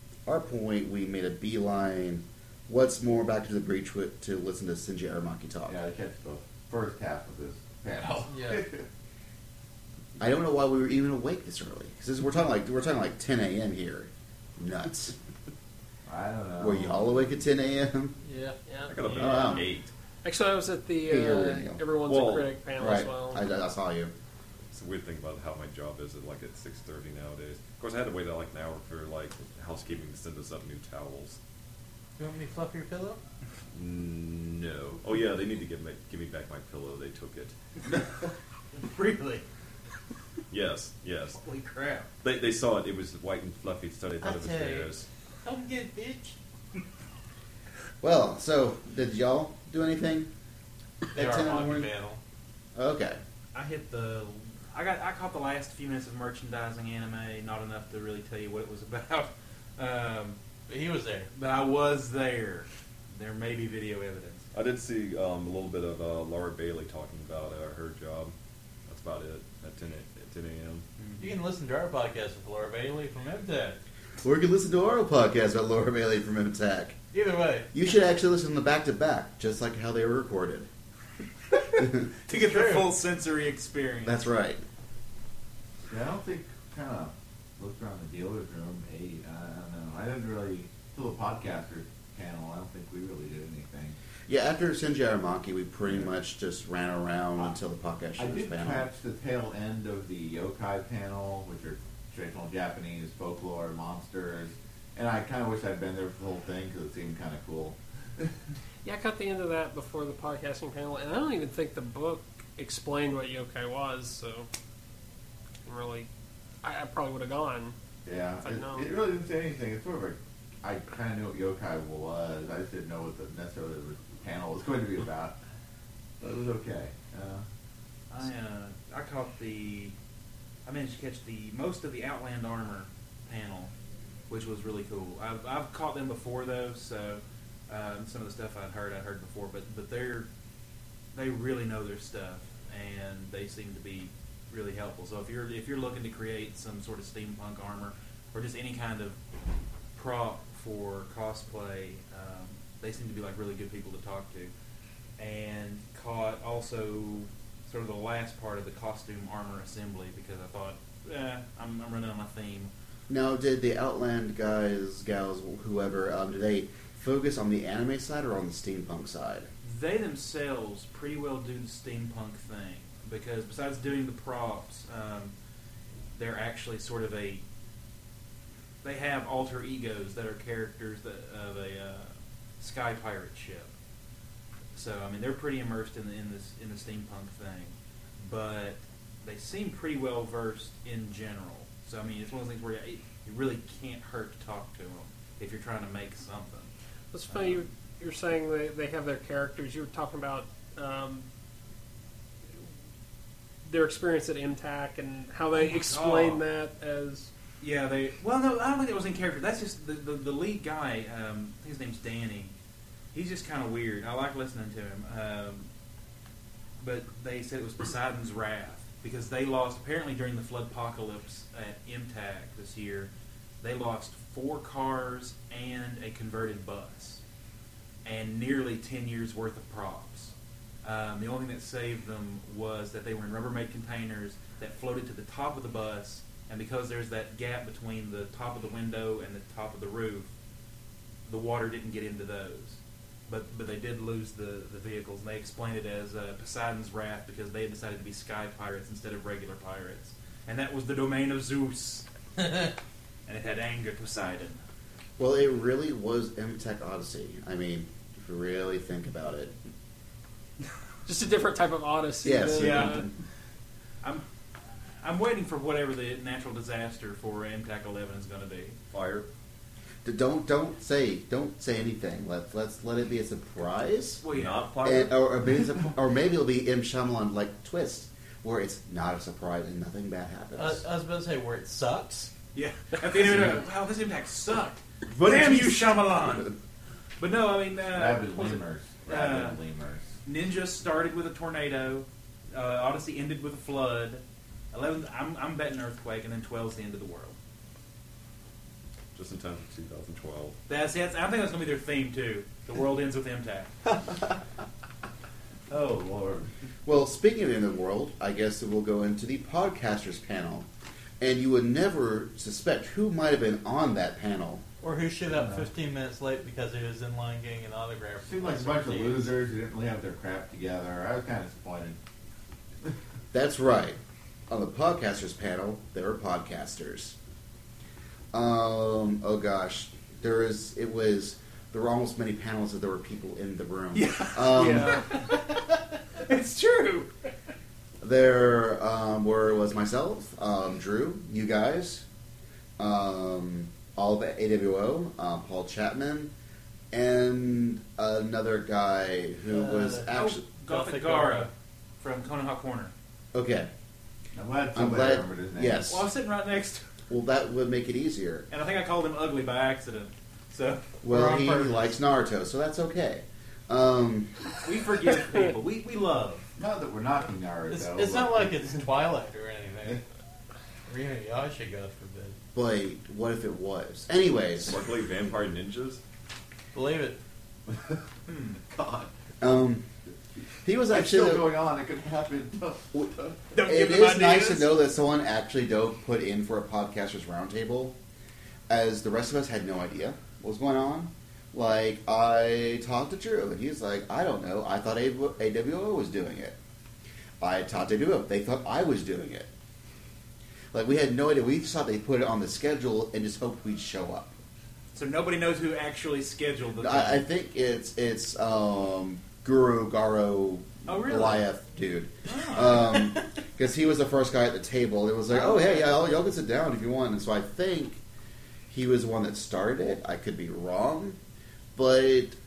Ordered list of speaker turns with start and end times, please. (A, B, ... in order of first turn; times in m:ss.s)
0:00.3-0:05.8 A
0:05.7-0:08.9 B
0:08.3-0:08.6 C
0:10.2-0:15.2 A
0:16.0-0:17.4 B
0:16.6-0:18.2 A
0:18.2-0:19.2 C
0:18.7-0:18.9 D
0:18.9-0:19.9 E
0:19.2-0:19.6 A
0:20.2-0:23.4 D
0:21.0-0:21.8 A
0:22.0-0:22.6 E
0:22.8-0:24.1 A
0:24.7-0:31.4 E
0:32.2-0:33.2 C
0:33.7-0:37.6 E
0:38.7-0:39.4 F
0:40.5-0:41.4 E
0:41.4-0:42.1 F
0:42.2-0:45.0 E
0:44.2-0:44.9 C
0:45.4-0:46.4 C
0:48.0-0:50.3 A
0:51.1-0:51.9 A
0:51.1-0:52.2 C
0:52.7-0:53.2 A
0:53.5-1:00.4 F
1:00.7-1:01.3 C
1:01.3-1:04.5 F
1:04.5-1:08.3 E
1:08.9-1:10.8 E
1:11.0-1:11.3 F
1:11.2-1:13.8 C
1:14.2-1:17.0 A
1:17.1-1:17.7 C
1:17.7-1:20.7 A
1:21.6-1:24.3 F
1:21.8-1:22.0 A
1:22.3-1:22.9 C
1:24.0-1:24.6 A
1:25.9-1:34.0 B
1:34.3-1:38.9 A
1:35.8-1:36.1 B
1:38.2-1:48.3 B
1:48.8-1:54.5 D
1:55.7-1:56.1 D
1:56.6-1:57.7 D
1:58.0-2:05.4 B
1:58.4-1:58.9 D
2:06.2-2:07.4 B
2:08.1-2:10.0 F
2:10.7-2:13.7 F
2:14.3-2:20.3 F
2:21.1-2:29.2 F
2:30.0-2:34.5 F
2:35.2-2:42.7 F
2:43.1-2:49.5 A
2:49.6-2:55.3 F
2:56.1-2:57.4 F
2:58.8-3:03.7 F
3:04.7-3:16.7 F
3:17.1-3:21.3 D
3:17.3-3:17.6 F
3:23.6-3:27.3 D
3:25.5-3:26.4 F
3:27.6-3:32.5 F
3:33.1-3:35.7 F
3:36.8-3:47.2 F
3:48.0-4:00.3 F
4:01.3-4:12.7 F
4:13.3-4:14.6 F
4:15.2-4:19.6 A
4:21.0-4:23.1 D
4:22.2-4:23.1 A
4:22.6-4:23.0 F
4:25.0-4:28.8 F
4:28.9-4:29.3 E
4:30.0-4:34.2 A
4:34.2-4:34.7 F
4:34.3-4:35.2 E
4:34.8-4:40.8 A
4:40.6-4:42.3 C
4:42.6-4:46.6 F
4:45.3-4:45.6 E
4:47.2-4:49.6 F
4:47.9-4:50.1 B
4:50.2-4:57.3 F
4:59.1-5:00.6 E
5:00.7-5:03.7 F
5:05.7-5:06.5 B
5:06.9-5:10.7 A
5:11.2-5:14.6 A
5:14.8-5:19.3 C
5:15.3-5:15.7 B
5:18.2-5:22.0 B
5:23.3-5:24.0 A
5:24.5-5:27.2 A
5:28.3-5:35.0 A
5:33.9-5:37.1 F
5:34.5-5:35.3 D
5:38.0-5:42.0 A
5:42.8-5:46.3 A
5:46.9-5:50.4 A
5:49.5-5:51.5 C
5:50.1-5:52.9 F
5:53.3-5:53.7 A
5:54.3-5:55.9 B
5:54.7-5:56.1 A
5:55.9-5:56.9 F
5:57.1-5:58.5 A
5:58.5-6:01.9 F
6:01.0-6:04.3 A
6:04.6-6:06.5 F
6:06.6-6:08.9 B
6:07.7-6:10.0 C
6:10.9-6:12.4 C
6:12.6-6:14.8 A
6:14.6-6:16.0 E
6:16.7-6:17.2 C
6:17.7-6:18.0 B
6:18.3-6:18.6 F
6:18.6-6:19.1 B
6:19.4-6:19.9 A
6:20.6-6:21.4 A
6:20.9-6:23.5 B
6:23.5-6:24.8 F
6:23.6-6:28.0 A
6:28.7-6:36.6 A
6:37.4-6:39.5 A
6:40.7-6:44.3 A
6:45.0-6:47.3 F
6:46.8-6:58.0 A
6:50.9-6:51.4 F
6:52.3-6:53.2 F
6:55.3-6:56.1 F
6:58.7-7:01.2 A
7:01.8-7:02.4 A